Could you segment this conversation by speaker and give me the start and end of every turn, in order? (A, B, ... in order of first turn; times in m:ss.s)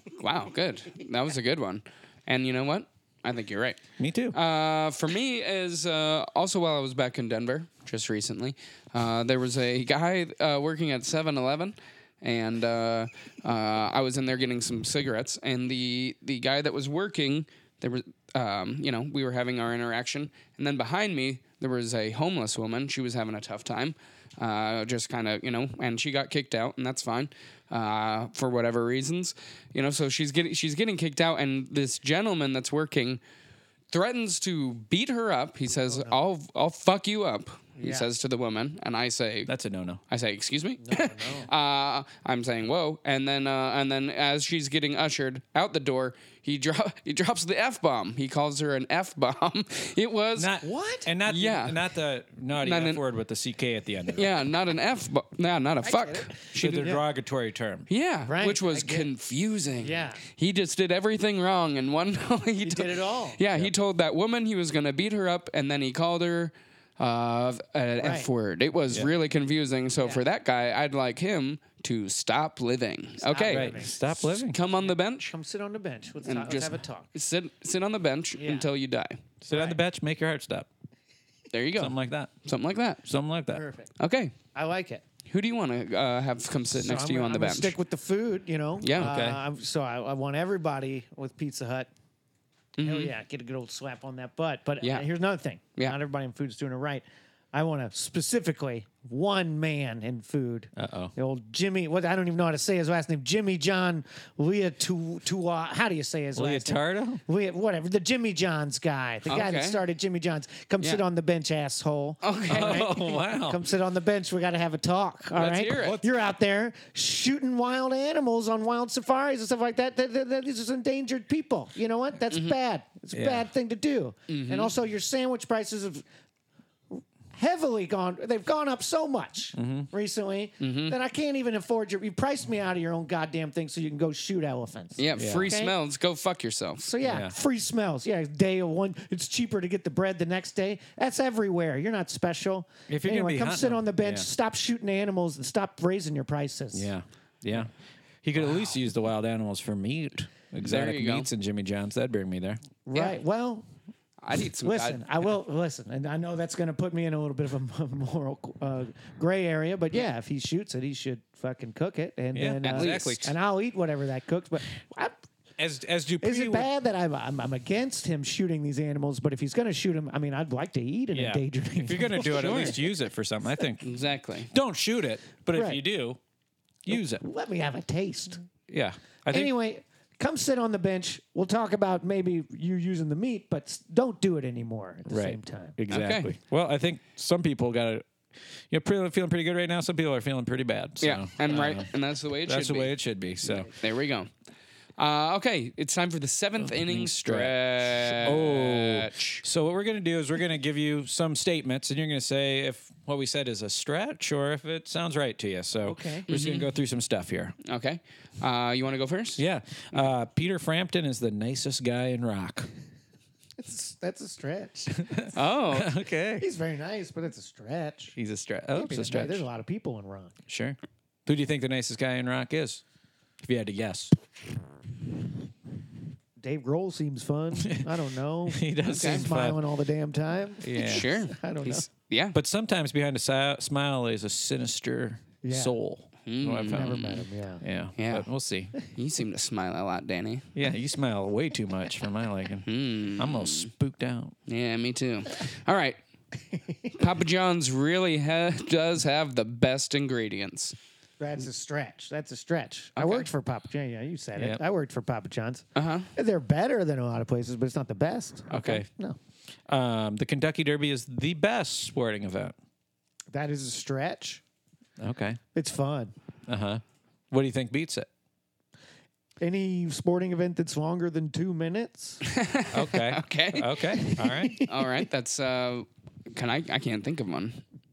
0:00.2-0:03.8 A
0:04.0-0:04.4 B
0:04.3-0:33.2 A
0:33.9-0:39.5 A
0:35.9-0:36.2 C
0:37.8-0:38.1 C
0:39.4-0:40.0 B
0:40.1-0:50.6 A
0:40.8-0:41.5 C
0:50.4-0:54.3 B
0:50.6-0:51.1 C
0:51.3-0:51.8 A
0:52.6-0:53.0 A
0:54.1-0:56.9 A
0:55.8-0:57.0 C
0:56.5-0:57.9 B
0:57.9-1:13.8 A
0:58.2-0:59.1 C
0:59.8-1:00.2 C
1:02.6-1:03.4 C
1:08.0-1:08.3 C
1:13.2-1:17.1 C
1:13.5-1:14.6 B
1:14.4-1:15.3 A
1:16.2-1:19.2 A
1:18.4-1:18.7 C
1:19.4-1:20.7 B
1:19.5-1:19.8 C
1:21.5-1:23.0 A
1:21.8-1:22.3 B
1:23.0-1:23.6 B
1:23.5-1:23.9 C
1:24.0-1:24.3 A
1:24.5-1:25.0 C
1:25.3-1:27.7 A
1:26.7-1:31.9 C
1:28.8-1:29.1 A
1:28.9-1:29.4 B
1:32.8-1:33.1 A
1:32.8-2:06.0 C
1:40.8-1:41.1 B
1:46.3-1:47.2 B
1:49.3-1:49.8 A
1:52.2-1:52.9 A
1:52.5-1:53.6 B
1:55.4-1:56.0 A
2:03.1-2:03.5 B
2:04.3-2:04.7 A
2:06.9-2:15.7 C
2:09.6-2:09.9 B
2:10.6-2:10.9 A
2:15.0-2:16.8 A
2:15.2-2:15.5 B
2:16.8-2:26.9 C
2:17.0-2:17.3 B
2:22.9-2:24.3 B
2:26.7-2:27.7 B
2:28.2-2:32.6 B
2:30.6-2:31.3 A
2:32.8-2:33.7 C
2:34.2-2:35.0 A
2:34.6-2:45.2 C
2:42.3-2:43.2 B
2:42.7-2:43.3 A
2:45.6-2:46.7 B
2:46.2-2:52.8 C
2:51.1-2:53.9 B
2:53.8-2:54.5 A
2:54.5-2:56.2 B
2:55.5-2:55.8 C
2:56.8-2:57.2 B
2:56.9-2:58.4 C
2:58.7-2:59.5 B
2:59.3-3:05.8 C
3:05.1-3:08.1 B
3:05.9-3:06.3 A
3:08.7-3:11.9 B
3:11.0-3:12.9 A
3:12.4-3:13.7 B
3:13.4-3:14.3 A
3:15.0-3:19.4 A
3:16.6-3:27.6 B
3:25.8-3:26.3 C
3:26.3-3:26.7 A
3:27.6-3:29.4 A
3:29.4-3:32.7 B
3:33.6-3:35.3 C
3:34.9-3:36.4 B
3:35.3-3:35.9 A
3:36.4-3:38.2 C
3:38.2-3:39.4 B
3:38.7-3:40.3 C
3:40.5-3:42.8 B
3:43.4-3:44.1 B
3:46.4-3:51.8 C
3:47.6-3:47.9 B
3:48.5-3:49.6 B
3:48.9-3:49.2 A
3:50.6-3:51.1 B
3:50.8-3:52.4 A
3:52.3-3:57.0 B
3:55.4-3:55.8 C
3:56.2-3:57.2 A
3:56.7-3:57.6 C
3:57.6-3:58.7 B
3:58.0-4:00.5 A
4:00.5-4:04.3 B
4:02.6-4:03.7 A
4:04.5-4:06.0 A
4:06.6-4:06.9 C
4:06.9-4:10.7 A
4:11.2-4:19.2 C
4:13.0-4:13.3 A
4:14.4-4:14.6 B
4:15.8-4:16.1 A
4:18.5-4:18.8 A
4:19.7-4:22.5 B
4:23.3-4:24.4 C
4:25.0-4:25.4 B
4:25.5-4:26.1 C
4:26.5-4:28.1 B
4:29.4-4:32.2 C
4:32.2-4:37.6 A
4:32.7-4:34.6 B
4:34.2-4:34.7 C